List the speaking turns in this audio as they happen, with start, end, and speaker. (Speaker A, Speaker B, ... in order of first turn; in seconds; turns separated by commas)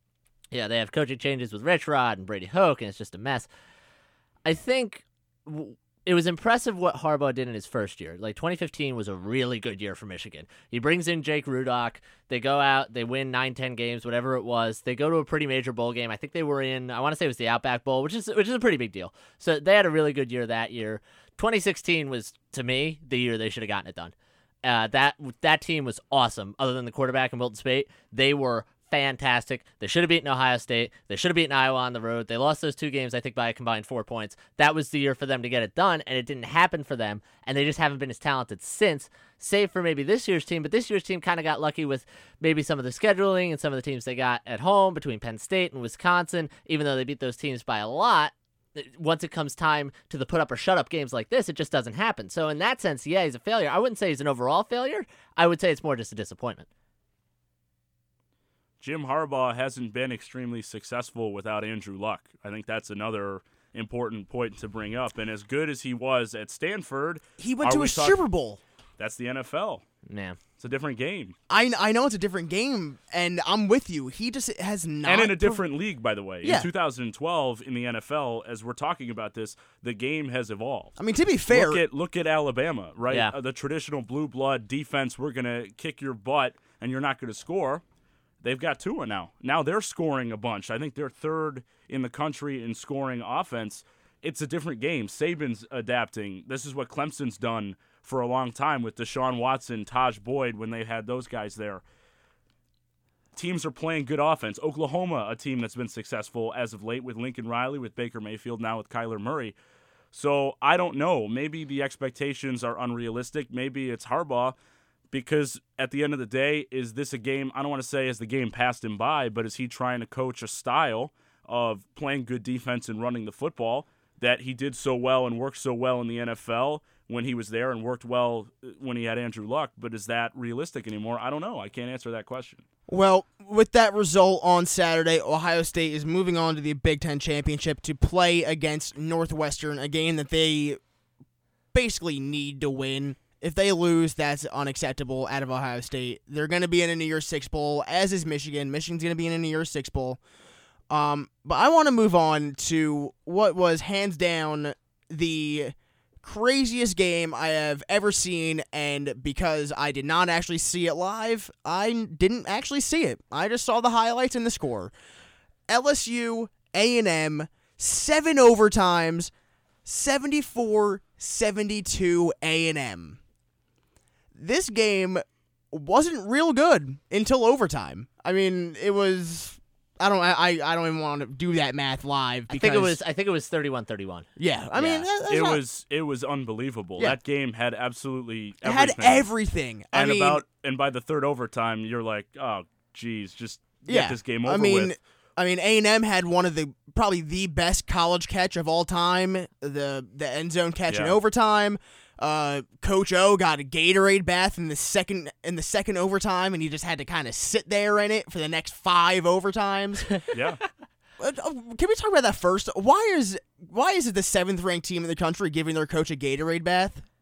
Speaker A: 0.5-3.5, Speaker A: 4.5-56.7, Speaker B: 58.8-68.2, Speaker C: 67.4-68.6, Speaker B: 69.0-69.8, Speaker A: 70.0-70.4, Speaker B: 70.6-71.3, Speaker C: 71.5-75.6, Speaker B: 75.0-81.0, Speaker C: 81.0-81.8, Speaker B: 81.5-87.8, Speaker B: 88.4-101.8, Speaker B: 103.3-109.5, Speaker B: 110.1-114.5, Speaker B: 115.1-132.6, Speaker C: 132.9-140.8, Speaker C: 141.7-150.2, Speaker C: 150.9-164.9, Speaker C: 165.7-169.3, Speaker C: 169.8-173.2, Speaker C: 174.3-183.0, Speaker A: 182.5-185.1, Speaker C: 184.4-185.6, Speaker B: 185.3-189.3, Speaker C: 188.6-190.4, Speaker B: 189.9-194.9, Speaker C: 193.9-210.1, Speaker B: 200.9-201.1, Speaker B: 210.3-210.6, Speaker C: 211.2-217.0